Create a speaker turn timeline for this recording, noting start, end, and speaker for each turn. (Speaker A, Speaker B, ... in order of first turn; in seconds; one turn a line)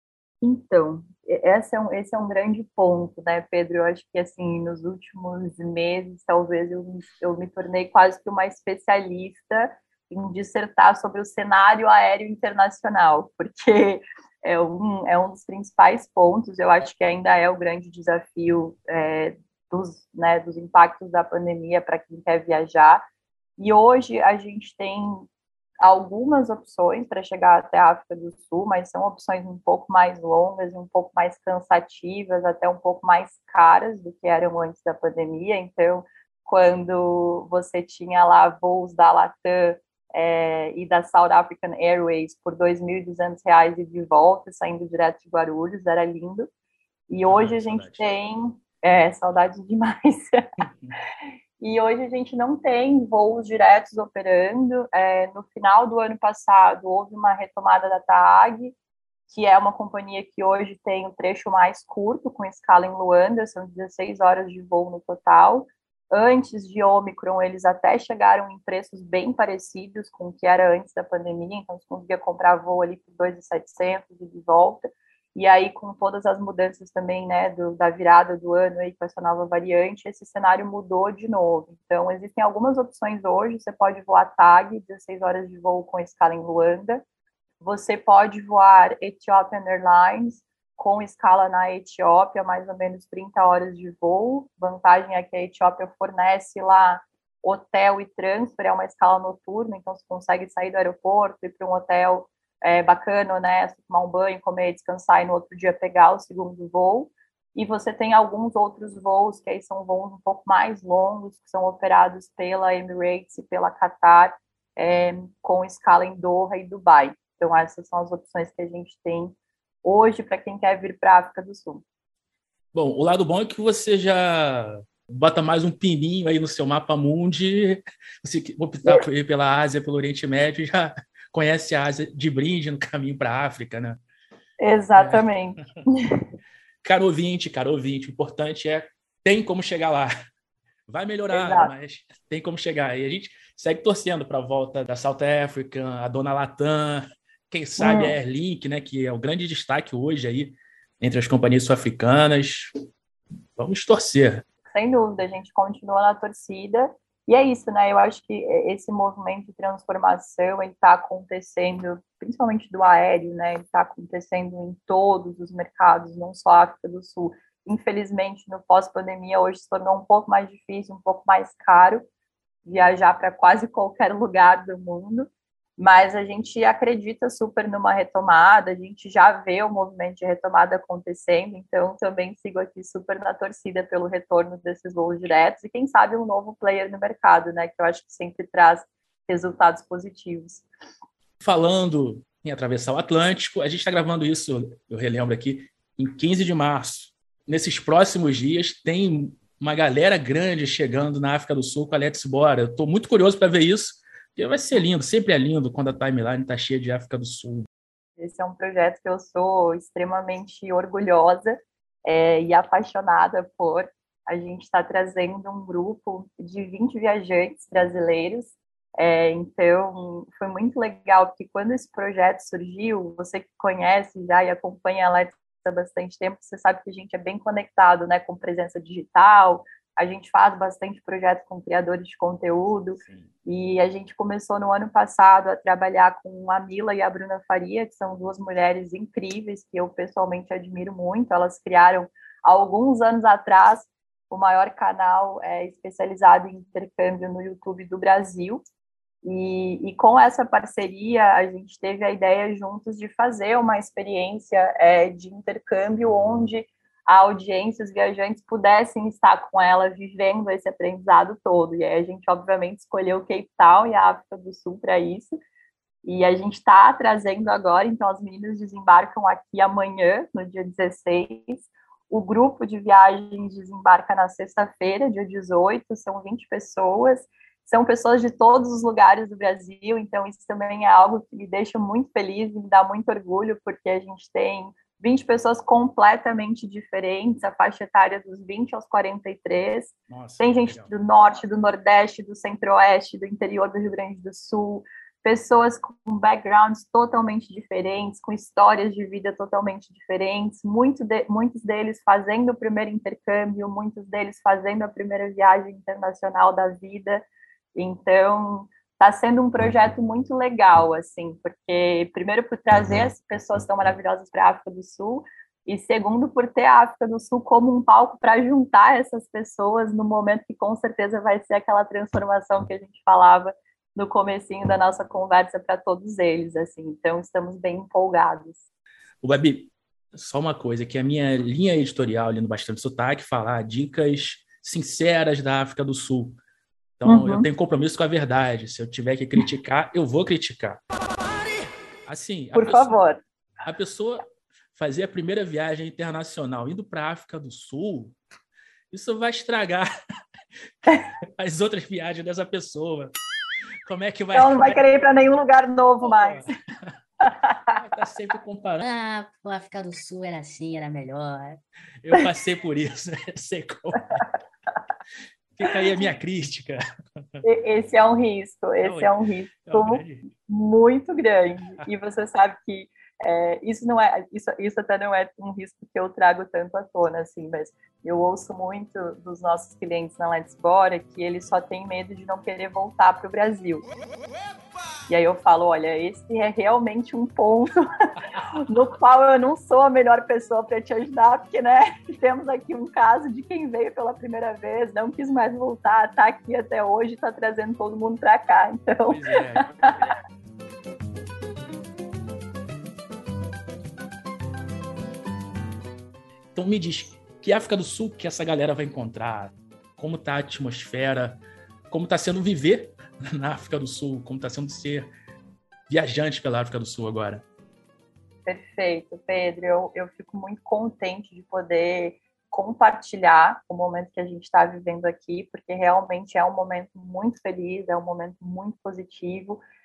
Speaker A: 0.4-23.0
Speaker A: 23.6-25.3
Speaker A: 25.8-46.5
Speaker A: 47.1-50.4
Speaker B: 47.3-48.1
Speaker B: 50.6-50.9
Speaker A: 51.6-58.8
Speaker A: 59.3-87.0
Speaker A: 87.6-121.8
Speaker B: 122.7-134.0
Speaker A: 134.6-136.2
Speaker B: 135.0-135.2
Speaker B: 136.8-140.1
Speaker B: 140.9-152.7
Speaker A: 141.3-141.7
Speaker A: 147.8-148.1
Speaker B: 153.6-154.4
Speaker A: 154.7-172.1
Speaker A: 172.6-190.6
Speaker B: 191.4-207.7
Speaker A: 208.2-248.6
Speaker B: 233.0-233.3
Speaker A: 249.2-265.4
Speaker A: 266.0-307.2
Speaker B: 290.1-290.9
Speaker A: 307.7-328.6
Speaker B: 329.2-336.4
Speaker B: 337.0-340.8
Speaker A: 337.1-337.5
Speaker B: 342.1-342.9
Speaker A: 342.5-343.2
Speaker B: 343.6-348.1
Speaker B: 348.9-349.9
Speaker B: 351.4-353.1
Speaker B: 353.9-354.8
Speaker A: 354.3-356.5
Speaker B: 356.0-356.9
Speaker A: 357.3-357.6
Speaker B: 357.7-358.8
Speaker C: 358.8-361.6
Speaker B: 362.0-364.2
Speaker B: 365.6-366.8
Speaker A: 367.4-383.8
Speaker B: 368.8-369.1
Speaker B: 369.6-370.2
Speaker A: 385.1-399.9
Speaker B: 399.1-400.1
Speaker B: 406.6-415.1
Speaker B: 415.9-417.4
Speaker A: 418.4-429.6